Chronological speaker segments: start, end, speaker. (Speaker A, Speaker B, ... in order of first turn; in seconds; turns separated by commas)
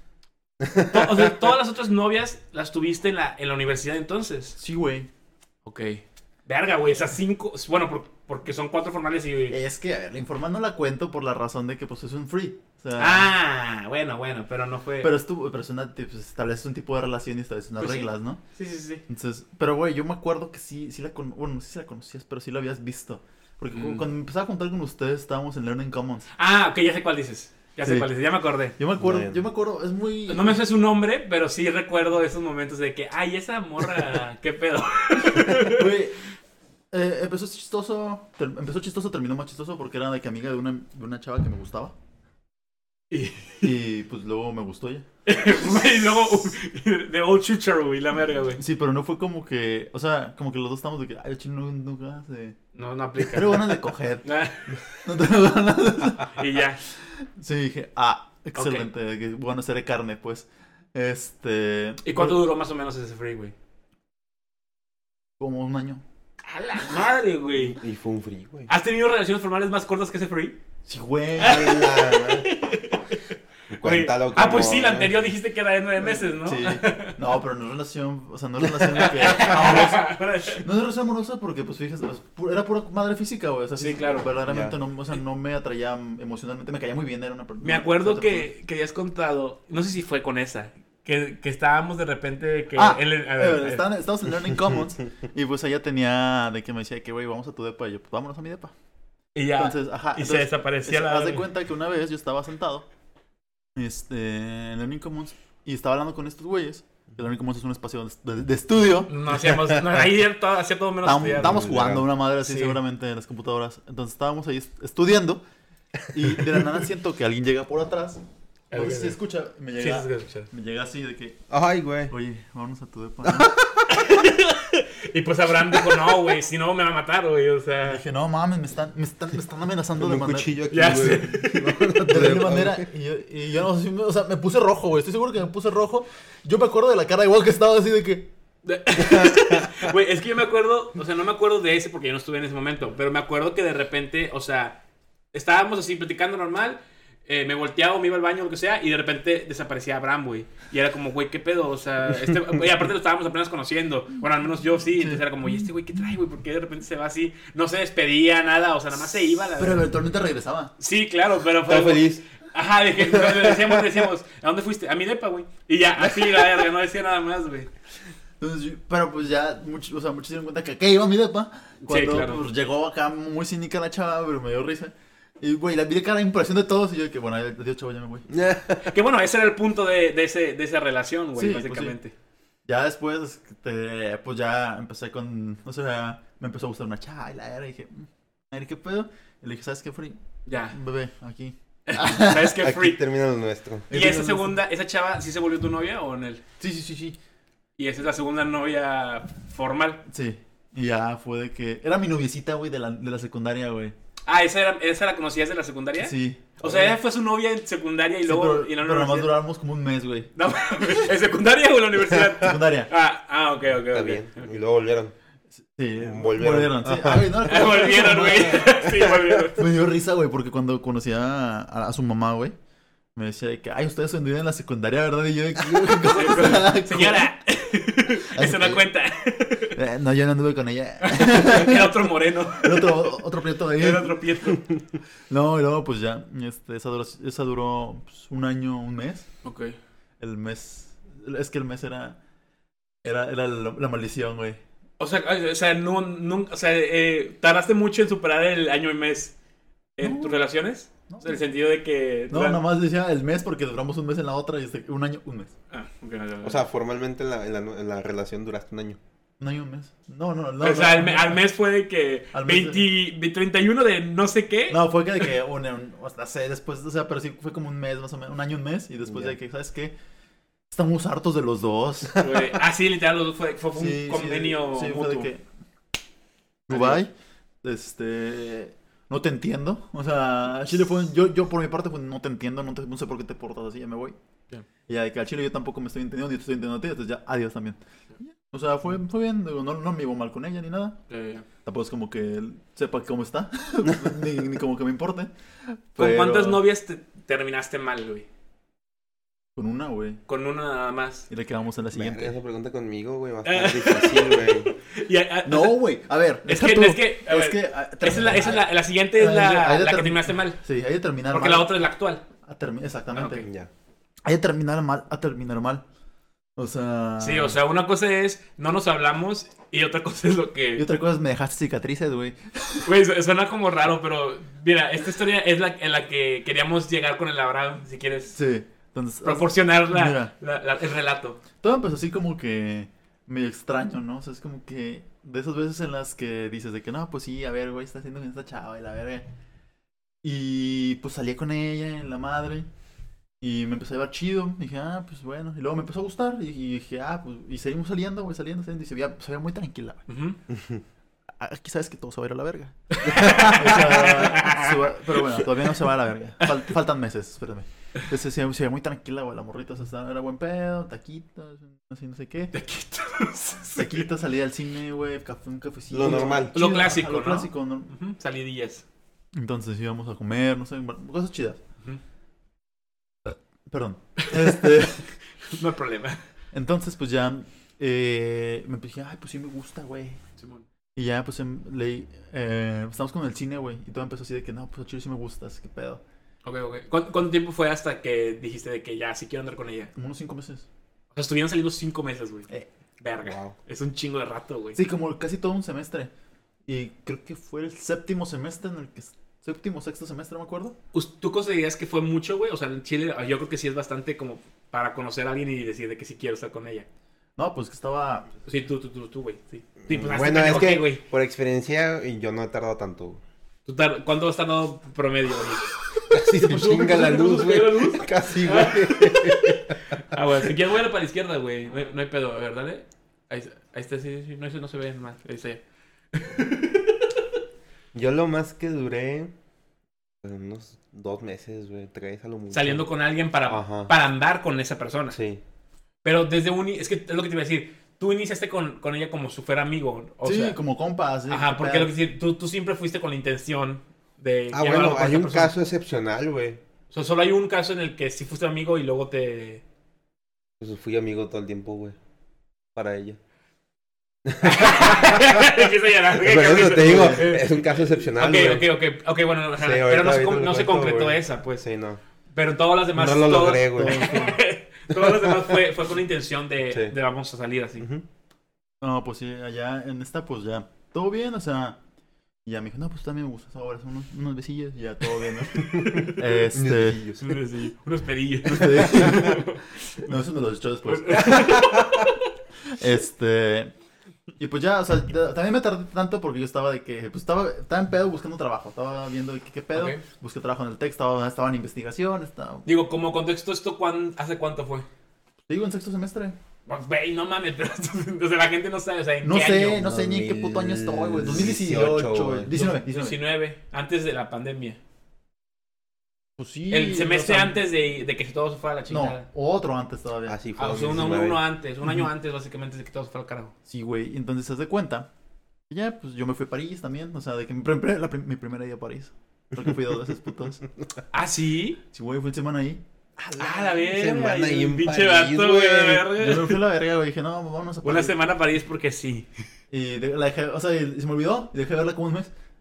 Speaker A: 0.6-1.3, Speaker B: 0.9-4.6, Speaker C: 4.6-5.1, Speaker B: 5.7-9.6, Speaker C: 9.5-13.3, Speaker B: 13.0-15.1, Speaker C: 15.0-18.4, Speaker B: 17.8-19.0, Speaker C: 19.1-26.3, Speaker B: 23.7-24.0, Speaker B: 26.4-28.8, Speaker C: 27.8-28.1, Speaker C: 28.8-30.6, Speaker A: 29.0-29.4, Speaker B: 30.3-35.9, Speaker C: 35.5-36.2, Speaker C: 36.9-42.0, Speaker B: 43.1-43.7, Speaker C: 43.6-45.1, Speaker B: 45.3-48.6, Speaker C: 48.6-52.6, Speaker B: 52.8-54.8, Speaker C: 53.2-54.3, Speaker C: 55.0-56.4, Speaker B: 56.3-56.8, Speaker C: 57.1-62.4, Speaker B: 58.6-58.9, Speaker B: 62.0-63.5, Speaker C: 65.4-66.0, Speaker B: 66.5-67.8, Speaker A: 67.5-68.7, Speaker B: 68.7-70.6, Speaker C: 70.9-71.8, Speaker A: 71.4-72.5, Speaker B: 71.4-77.2, Speaker A: 73.7-75.2, Speaker C: 76.1-88.5, Speaker B: 78.8-80.6, Speaker B: 83.8-84.3, Speaker A: 84.5-84.7, Speaker B: 87.6-93.8, Speaker C: 92.8-98.7, Speaker B: 99.3-101.5, Speaker C: 99.6-102.9, Speaker C: 103.8-110.0, Speaker B: 109.1-111.6, Speaker C: 111.0-115.4, Speaker A: 111.2-112.1, Speaker B: 112.4-112.8, Speaker C: 116.1-118.2, Speaker B: 118.7-119.2, Speaker C: 118.7-121.4, Speaker B: 119.8-120.5, Speaker A: 121.5-122.1, Speaker C: 122.1-123.5, Speaker A: 123.3-123.9, Speaker B: 123.9-128.0, Speaker C: 127.8-130.6, Speaker A: 130.0-132.8, Speaker B: 130.7-131.8, Speaker C: 132.1-138.3, Speaker B: 138.6-144.8, Speaker A: 139.1-139.7, Speaker B: 145.3-159.9, Speaker C: 154.9-155.7, Speaker C: 159.6-160.7, Speaker B: 160.8-167.7, Speaker A: 161.7-162.2, Speaker A: 163.1-163.8, Speaker C: 168.4-178.3, Speaker B: 171.8-172.5, Speaker A: 178.3-178.9, Speaker B: 178.8-182.1, Speaker C: 181.3-182.0, Speaker C: 182.7-190.2, Speaker B: 190.5-190.8, Speaker C: 190.7-192.6, Speaker B: 191.9-193.0, Speaker A: 192.6-193.9, Speaker C: 193.9-194.6, Speaker B: 193.9-196.4, Speaker C: 196.6-197.2, Speaker B: 197.8-200.0, Speaker C: 200.1-203.9, Speaker B: 204.3-209.3, Speaker C: 206.0-206.9, Speaker C: 208.2-210.3, Speaker B: 210.4-214.6, Speaker C: 212.3-212.9, Speaker A: 213.9-215.1, Speaker C: 215.8-222.6, Speaker A: 216.0-217.4, Speaker B: 217.4-219.6, Speaker C: 223.2-227.3, Speaker B: 226.0-229.8, Speaker C: 228.3-228.9, Speaker C: 229.7-234.2, Speaker B: 231.0-233.2, Speaker B: 233.8-234.7, Speaker C: 235.3-239.3, Speaker B: 239.4-239.8, Speaker C: 240.2-242.2, Speaker C: 243.0-244.6, Speaker B: 245.0-249.4, Speaker B: 250.0-252.6, Speaker C: 250.0-250.4, Speaker C: 251.1-251.4, Speaker C: 252.3-255.5, Speaker B: 255.7-256.6, Speaker A: 256.4-259.0, Speaker C: 259.4-261.4, Speaker B: 260.6-264.8, Speaker C: 262.3-262.9, Speaker C: 264.7-269.9, Speaker A: 269.1-269.4, Speaker C: 270.7-272.3, Speaker B: 272.2-275.3, Speaker C: 273.8-275.4, Speaker C: 276.7-277.1, Speaker C: 277.6-284.2, Speaker C: 284.9-291.0, Speaker B: 291.1-291.4, Speaker C: 291.6-296.6, Speaker B: 296.0-298.3, Speaker C: 299.6-300.2, Speaker B: 300.3-301.3, Speaker C: 301.3-302.4, Speaker A: 301.9-304.7, Speaker B: 303.4-305.8, Speaker C: 305.5-311.7, Speaker B: 306.5-310.6, Speaker B: 311.3-312.2, Speaker C: 312.4-313.5, Speaker B: 313.1-313.5, Speaker A: 313.4-313.7, Speaker C: 314.2-315.9, Speaker C: 316.6-317.6, Speaker B: 317.2-320.9, Speaker C: 320.8-322.9, Speaker B: 322.8-328.4, Speaker C: 328.3-330.3, Speaker B: 329.2-331.4, Speaker C: 331.6-339.3, Speaker C: 340.2-342.7, Speaker C: 343.4-350.0, Speaker B: 350.1-350.4, Speaker A: 350.5-350.8, Speaker C: 351.4-362.5, Speaker B: 352.9-355.4, Speaker B: 362.5-364.1, Speaker C: 363.8-367.9, Speaker A: 365.9-366.6, Speaker B: 366.1-368.9, Speaker C: 369.4-371.6, Speaker C: 373.2-375.1, Speaker B: 374.2-374.9, Speaker B: 375.4-376.2, Speaker C: 376.5-380.2, Speaker B: 380.4-380.6, Speaker C: 380.9-386.0, Speaker B: 386.4-389.9, Speaker C: 390.0-390.7, Speaker B: 391.1-394.8, Speaker A: 393.2-393.6, Speaker C: 394.8-396.1, Speaker C: 396.7-400.8, Speaker B: 400.9-406.9, Speaker C: 407.4-408.3, Speaker B: 408.5-411.0, Speaker A: 409.9-413.2, Speaker B: 413.7-415.7, Speaker A: 416.1-420.0, Speaker B: 416.3-427.1, Speaker A: 427.9-429.3, Speaker A: 430.2-432.9, Speaker B: 432.5-435.2, Speaker A: 433.5-433.9, Speaker A: 435.1-435.4, Speaker B: 436.0-440.6, Speaker C: 440.2-441.9, Speaker B: 441.3-445.5, Speaker A: 444.5-446.6, Speaker B: 446.9-449.6, Speaker A: 450.6-452.0, Speaker A: 452.8-453.2, Speaker A: 454.2-455.5, Speaker B: 454.4-461.6, Speaker A: 456.2-458.7, Speaker C: 456.8-457.4, Speaker A: 459.6-462.0, Speaker B: 462.3-467.9, Speaker A: 462.9-464.3, Speaker C: 463.7-464.4, Speaker A: 464.9-465.6, Speaker A: 467.8-468.0, Speaker C: 468.8-471.8, Speaker C: 472.4-477.0, Speaker B: 475.6-476.2, Speaker A: 475.6-477.4, Speaker B: 477.2-480.1, Speaker C: 478.4-481.6, Speaker B: 480.9-482.3, Speaker A: 481.3-482.1, Speaker C: 482.7-483.7, Speaker C: 484.4-492.7, Speaker B: 489.7-490.0, Speaker B: 492.7-494.9, Speaker C: 495.5-496.4, Speaker B: 496.7-499.9, Speaker C: 499.2-503.2, Speaker A: 499.8-502.5, Speaker B: 502.5-504.8, Speaker C: 506.4-507.6, Speaker B: 506.7-509.3, Speaker C: 508.9-510.4, Speaker A: 510.3-511.4, Speaker B: 510.6-513.5, Speaker C: 513.7-515.1, Speaker C: 515.7-520.7, Speaker B: 521.1-521.8, Speaker C: 521.9-522.8, Speaker A: 523.2-526.1, Speaker B: 523.4-526.6, Speaker C: 526.2-528.2, Speaker B: 527.8-529.3, Speaker C: 529.7-532.3